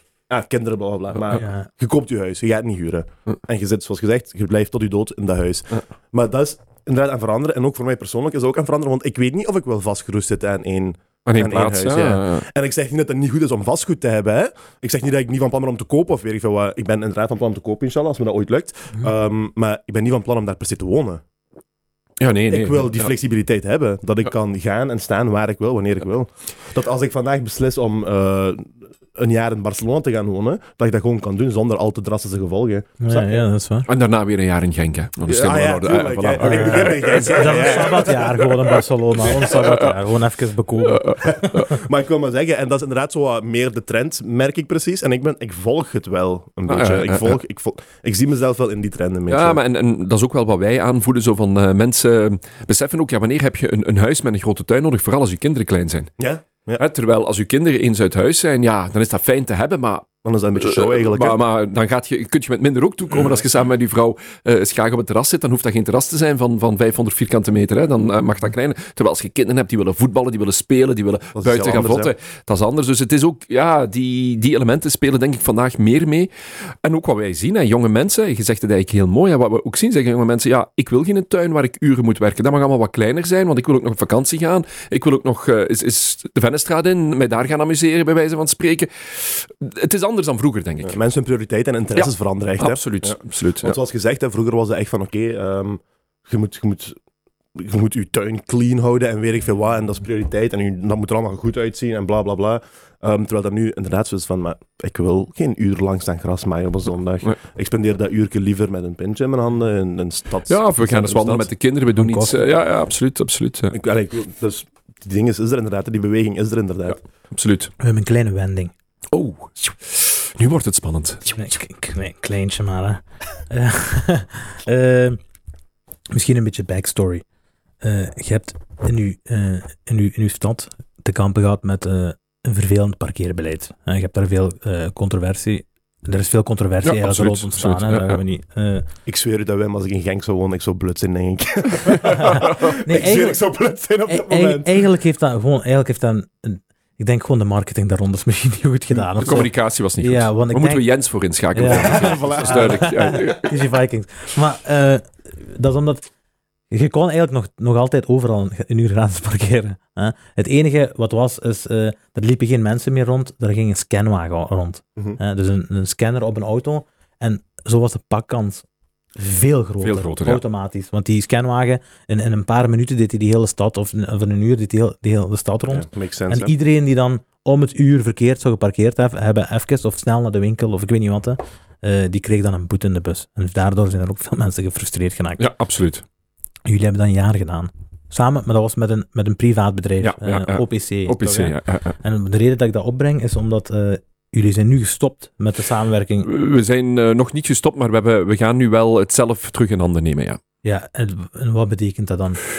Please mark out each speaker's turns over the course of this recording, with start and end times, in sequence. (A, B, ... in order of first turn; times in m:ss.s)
0:00.3-0:21.2 A
0:01.4-0:01.7 B
0:11.2-0:12.4 C
0:22.2-0:23.1 C
0:22.5-0:33.4 A
0:33.0-0:33.9 B
0:33.9-0:38.6 C
0:35.3-0:38.4 A
0:36.4-0:41.8 B
0:39.3-0:40.0 C
0:40.8-0:41.6 C
0:41.2-0:49.6 A
0:46.7-0:47.4 C
0:49.3-0:56.1 C
0:56.2-0:56.8 A
0:56.8-1:16.3 C
1:00.2-1:01.4 A
1:11.4-1:12.1 A
1:16.8-1:31.0 C
1:30.8-1:37.0 A
1:31.9-1:33.8 C
1:37.5-1:51.5 A
1:50.5-1:53.8 C
1:51.9-1:52.4 B
1:53.7-1:57.0 A
1:56.9-1:57.7 C
1:57.8-1:58.7 B
1:59.1-2:01.4 C
2:01.3-2:05.2 B
2:06.1-2:07.2 B
2:07.8-2:18.9 B
2:16.8-2:18.2 C
2:19.0-2:24.8 A
2:21.9-2:22.6 C
2:22.4-2:23.4 B
2:24.1-2:30.9 B
2:29.2-2:33.6 C
2:31.5-2:36.1 B
2:31.7-2:33.0 A
2:36.7-2:48.6 B
2:49.2-3:05.4 B
2:49.8-2:50.4 C
2:55.7-2:56.5 A
3:05.4-3:06.0 C
3:06.6-3:16.3 B
3:10.0-3:12.0 C
3:16.2-3:20.4 C
3:20.6-3:22.4 B